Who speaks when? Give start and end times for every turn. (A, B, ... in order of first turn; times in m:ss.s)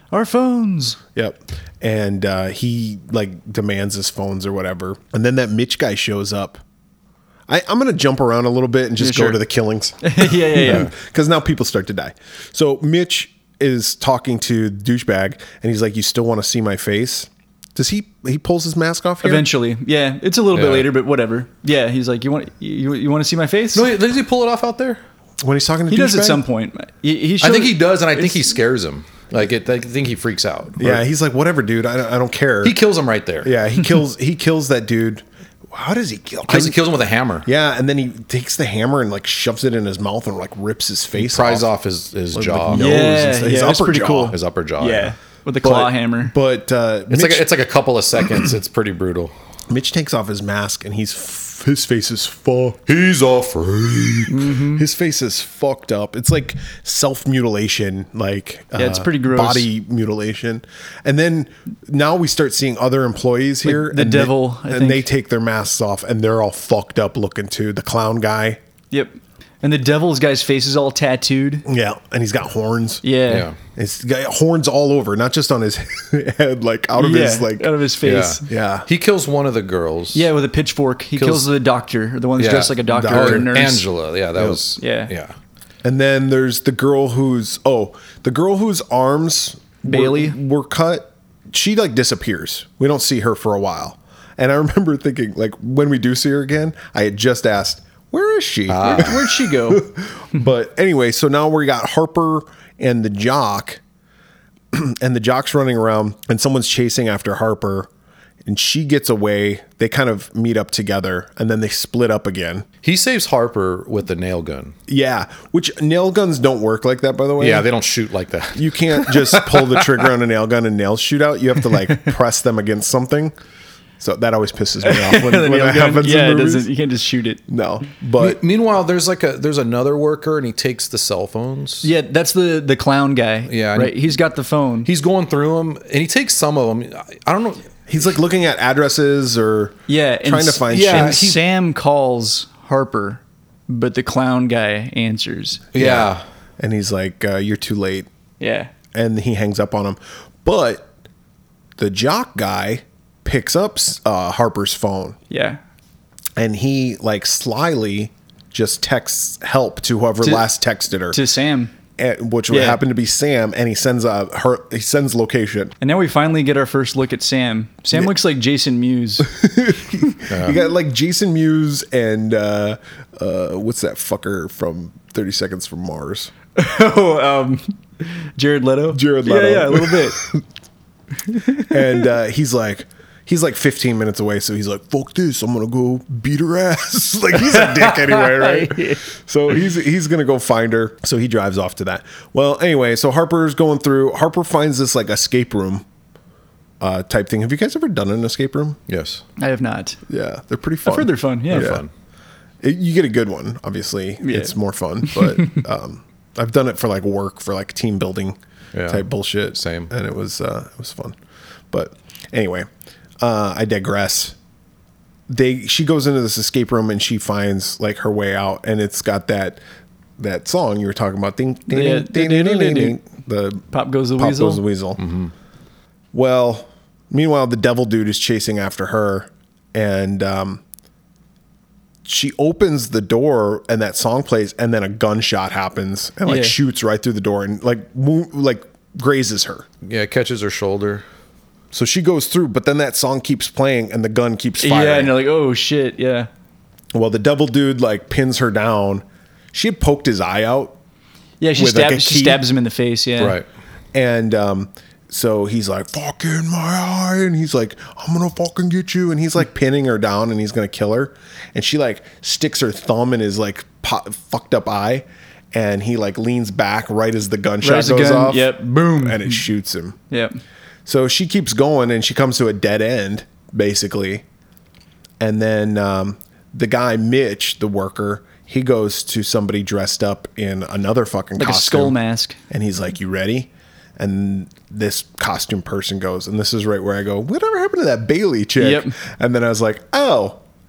0:00.1-0:01.0 A
0:01.1-0:06.6 B
0:07.5-0:19.5 B
0:09.0-0:09.4 A
0:10.0-0:10.9 A
0:19.2-0:23.9 A
0:20.5-0:20.9 C
0:23.7-0:25.0 C
0:25.4-0:26.4 B
0:25.9-0:28.5 A
0:27.4-0:31.0 C
0:30.8-0:32.8 B
0:32.6-0:33.5 C
0:33.4-0:36.8 B
0:36.5-0:37.5 C
0:37.4-0:41.7 B
0:41.2-0:43.1 C
0:42.3-0:44.4 B
0:42.7-0:46.3 A
0:44.3-0:45.1 C
0:45.6-0:47.5 B
0:47.1-0:49.3 C
0:49.7-0:52.8 B
0:52.9-0:54.3 C
0:54.3-0:54.8 A
0:54.6-1:08.6 B
0:58.7-0:59.7 A
1:03.6-1:05.1 A
1:08.9-1:11.6 A
1:11.7-1:13.0 B
1:13.0-1:13.5 A
1:13.3-1:13.6 C
1:13.7-1:17.7 B
1:17.0-1:18.4 A
1:18.0-1:20.3 C
1:18.4-1:18.9 B
1:20.1-1:23.8 A
1:21.2-1:21.5 C
1:22.4-1:25.3 C
1:22.9-1:23.5 B
1:24.8-1:25.1 A
1:25.8-1:43.8 B
1:29.8-1:30.4 A
1:38.7-1:39.2 C
1:38.8-1:39.8 A
1:44.7-1:47.9 B
1:48.4-1:52.6 B
1:52.8-1:54.7 C
1:54.9-1:57.7 B
1:57.4-2:00.0 C
1:58.5-2:03.3 B
2:04.0-2:06.7 B
2:04.8-2:07.4 A
2:07.5-2:08.4 B
2:08.2-2:11.9 C
2:11.8-2:14.9 A
2:13.5-2:14.2 C
2:14.8-2:17.7 C
2:17.9-2:21.3 B
2:19.9-2:25.6 A
2:20.7-2:21.4 C
2:25.7-2:26.2 C
2:25.7-2:28.1 B
2:28.4-2:28.7 A
2:28.9-2:30.9 B
2:31.8-2:35.2 B
2:35.3-2:35.6 A
2:36.4-2:41.2 B
2:41.1-2:41.7 A
2:42.0-2:45.7 B
2:42.5-2:42.8 A
2:45.8-2:49.3 A
2:49.2-2:56.3 B
2:50.3-2:50.6 C
2:56.6-3:00.2 A
2:58.9-3:00.4 B
3:01.3-3:01.7 A
3:01.6-3:15.8 B
3:07.4-3:09.0 A
3:16.8-3:18.8 B
3:18.9-3:19.2 C
3:19.4-3:20.0 A
3:20.1-3:21.8 B
3:20.8-3:21.8 A
3:21.5-3:21.9 C
3:22.6-3:31.2 B
3:24.2-3:24.5 A
3:25.0-3:25.6 A
3:28.7-3:29.0 C
3:29.6-3:29.9 C
3:31.7-3:32.7 B
3:33.2-3:34.3 B
3:35.3-3:39.6 B
3:40.2-3:43.6 B
3:41.7-3:43.0 A
3:43.7-3:44.6 A
3:44.2-3:45.0 B
3:45.0-3:45.3 C
3:46.1-3:50.6 B
3:52.0-3:59.7 B
3:56.2-3:56.6 A
3:59.8-4:01.0 C
4:01.7-4:05.2 B
4:04.6-4:06.3 A
4:06.9-4:10.8 B
4:11.4-4:13.4 A
4:11.6-4:12.4 B
4:13.2-4:13.4 C
4:13.9-4:30.0 B
4:27.6-4:29.4 A
4:30.1-4:30.4 A
4:30.8-4:34.2 B
4:35.2-4:42.0 B
4:41.4-4:42.4 A
4:42.5-4:50.4 B
4:48.6-4:48.9 A